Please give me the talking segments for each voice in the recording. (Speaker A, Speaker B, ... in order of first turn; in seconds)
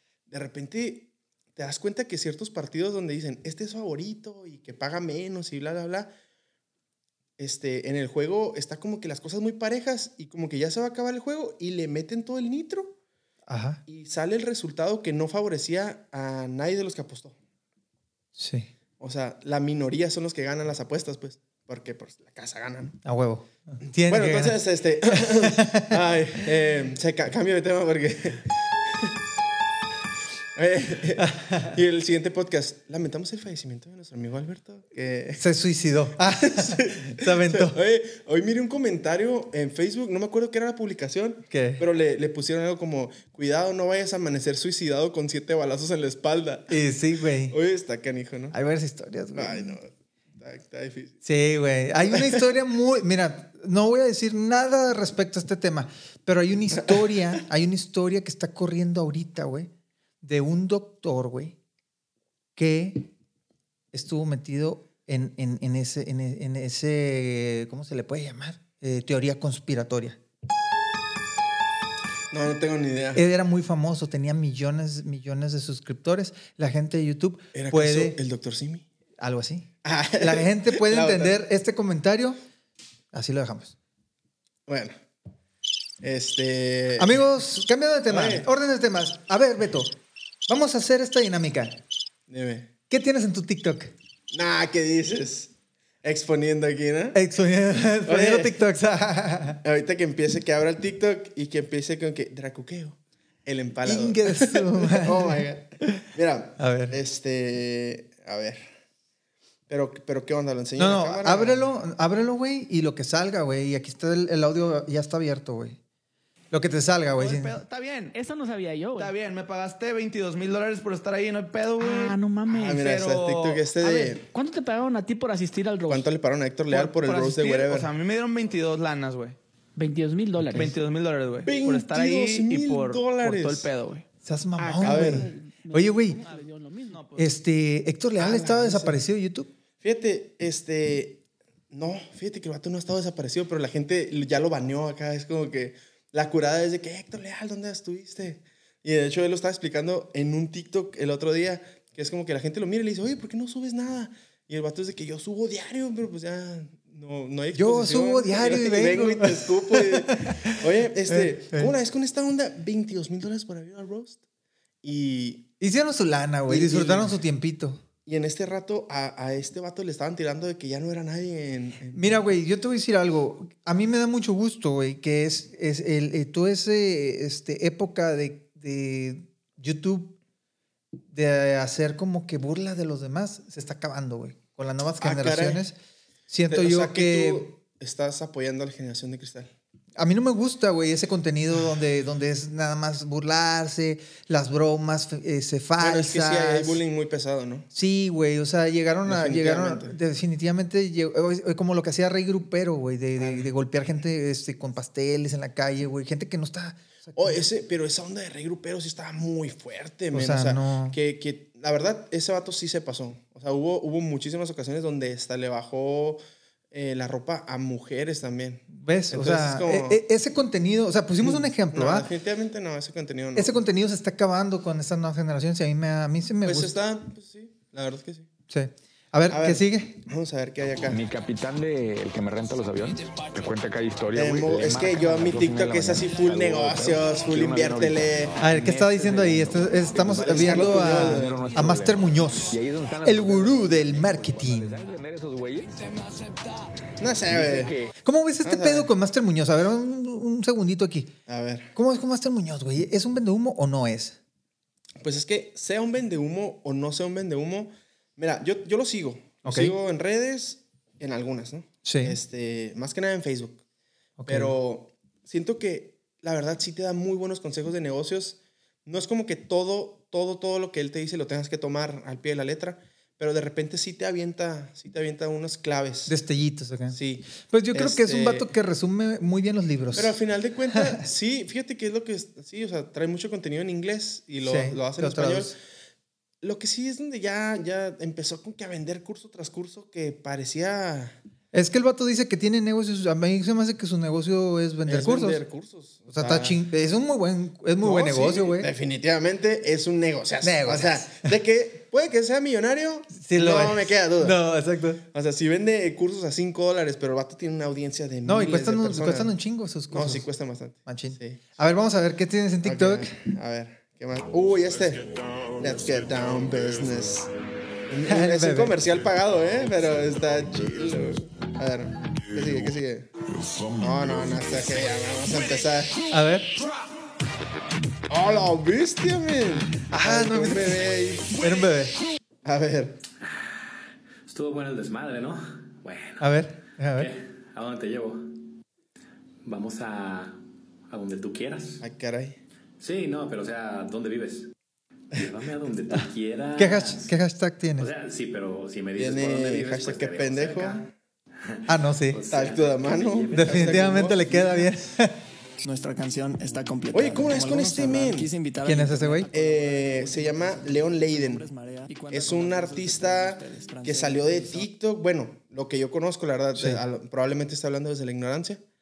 Speaker A: 0.3-6.1, 7.4-12.9, 13.9-17.4, 19.0-23.0, 24.0-29.1, 30.5-35.4, 36.4-46.8, 47.5-48.6, 49.4-51.2, 52.1-52.4, 72.3-73.2, 77.5-78.9, 79.8-81.4, 84.7-84.9, 86.0-87.2, 88.1-88.5, 92.3-92.7, 94.3-97.2, 98.0-98.6, 99.6-108.6, 109.7-111.7, 122.5-124.2, 125.9-127.9, 131.4-133.7, 134.8-135.3, 138.2-139.0, 139.8-164.2, 164.8-165.5, 166.5-167.2, 168.1-172.2, 185.0-185.7, 186.5-189.5, 195.8-197.7, 199.1-199.9, 207.2-216.2, 216.7-220.0, 221.2-223.6, 226.4-228.3, 229.3-231.0, 234.1-238.3, 240.2-241.4, 247.0-247.7, 248.4-248.9, 251.3-251.7, 255.0-263.6, 264.2-276.1, 276.9-278.5, 279.9-285.6, 286.4-291.2, 294.9-296.6, 297.8-304.4, 305.1-309.4, 309.9-311.4, 312.6-317.3, 317.9-323.1, 323.6-326.0, 328.1-331.4, 332.4-333.0, 341.8-342.4, 349.0-350.9, 352.3-354.7, 356.9-358.3, 359.3-361.4, 362.1-368.6
Speaker B: 13.5-13.8, 18.4-18.7, 23.0-24.6, 25.1-26.0, 31.2-31.8, 35.4-37.8, 41.5-41.8, 46.7-47.6, 48.5-49.8, 51.2-59.7, 60.2-61.6, 62.5-63.1, 63.9-70.2, 73.1-78.2, 79.2-82.4, 83.1-83.7, 87.0-90.0, 90.5-91.8, 92.9-93.9, 97.1-99.6, 103.8-106.0, 106.6-107.0, 110.8-115.8, 116.5-117.5, 134.2-136.2, 137.2-139.5, 157.5-161.7, 165.6-167.8, 171.9-180.2, 181.1-185.8, 186.3-187.5, 189.9-196.8, 197.7-207.4, 210.1-211.0, 218.7-222.1, 223.4-226.8, 228.5-230.0, 238.4-244.8, 248.0-251.1, 251.8-254.2, 259.4-259.8, 261.8-262.1, 264.2-264.5, 276.1-280.2, 280.7-281.0, 284.4-285.5, 291.5-295.4, 296.1-298.7, 300.4-301.3, 303.2-305.0, 308.2-310.3, 310.9-313.1, 318.1-318.8, 326.1-326.5, 329.9-330.9, 331.4-332.0, 336.2-337.1, 346.6-347.9, 351.7-352.2, 353.3-355.2, 358.6-359.3, 366.6-366.8
Speaker C: 117.2-118.1, 119.0-122.1, 122.7-124.1, 126.7-129.4, 130.4-134.0, 136.9-137.2
Speaker D: 118.1-119.1, 121.8-122.8, 123.9-126.1, 129.8-130.8, 134.6-137.1
Speaker E: 230.8-246.1, 247.3-247.9
Speaker F: 333.2-336.4, 336.9-338.4, 339.4-341.8, 342.8-344.5, 345.1-347.1, 347.8-350.9, 351.4-354.0
Speaker G: 355.6-364.7